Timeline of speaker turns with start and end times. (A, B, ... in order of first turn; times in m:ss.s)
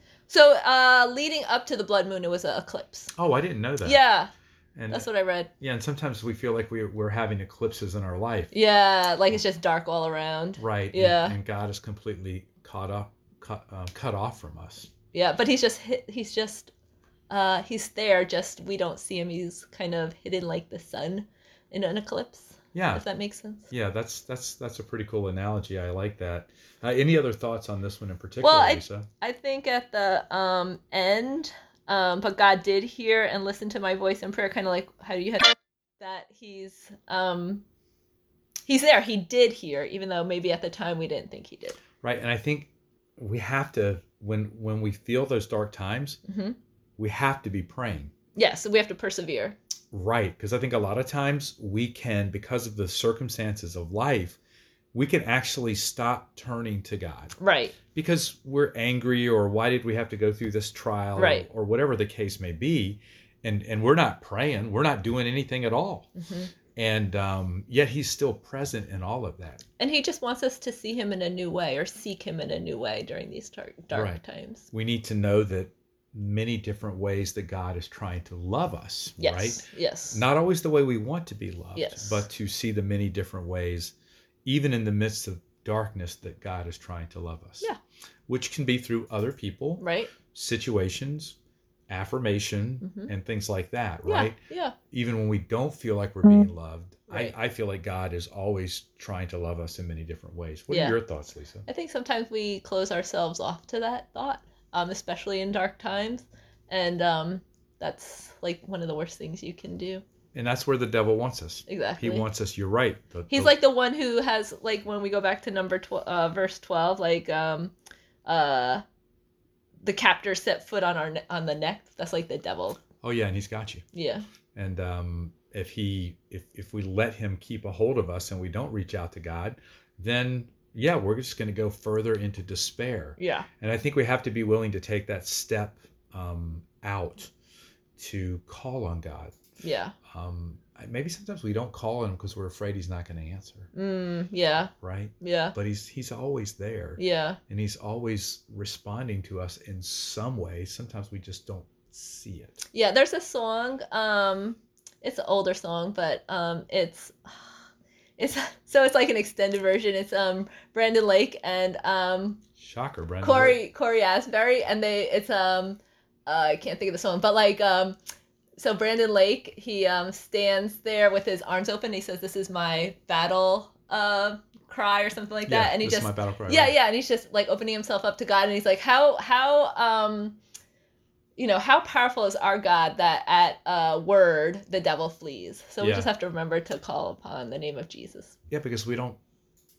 0:00.3-0:03.1 A
0:03.1-0:04.0 B
0:03.8-0:04.3 A
0:04.8-0:05.1 B
0:04.9-0:05.5 A
0:05.6-0:08.5 B
0:08.5-0:11.4 A
0:10.6-0:14.9 B
0:15.1-0:16.7 A
0:17.3-0:23.7 A
0:22.7-0:23.0 B
0:23.7-0:29.1 B
0:28.4-0:37.6 A
0:38.7-0:41.8 A
0:42.0-0:46.2 B
0:46.2-0:46.6 A
0:47.0-0:48.1 B
0:48.4-0:49.6 A
0:49.9-0:54.4 B
0:54.9-0:57.4 B
0:57.4-0:57.8 A
0:57.9-1:06.1 B
1:01.2-1:01.4 A
1:06.2-1:06.5 A
1:06.8-1:09.6 B
1:09.8-1:14.7 A
1:13.9-1:14.2 B
1:14.7-1:27.7 B
1:19.2-1:20.2 A
1:21.8-1:22.2 A
1:28.3-1:31.4 B
1:29.8-1:30.1 A
1:31.9-1:34.4 B
1:32.8-1:33.1 A
1:34.0-1:34.8 A
1:34.9-1:41.7 B
1:36.2-1:36.5 A
1:40.7-1:41.0 A
1:41.6-1:50.0 A
1:50.3-1:53.5 B
1:51.7-1:52.2 A
1:53.3-1:57.7 A
1:58.2-1:58.8 A
1:59.8-2:02.8 A
2:03.0-2:03.8 B
2:03.9-2:04.2 A
2:04.5-2:17.3 B
2:13.2-2:13.5 A
2:18.0-2:19.3 B
2:19.6-2:19.9 A
2:20.1-2:23.7 B
2:23.7-2:25.5 A
2:24.8-2:32.6 B
2:27.0-2:27.4 A
2:32.7-2:37.6 A
2:38.2-2:42.4 A
2:42.6-2:43.6 B
2:43.2-2:48.0 A
2:48.6-3:00.4 A
2:55.4-2:56.8 B
3:01.4-3:08.3 A
3:05.8-3:06.1 B
3:08.5-3:09.2 B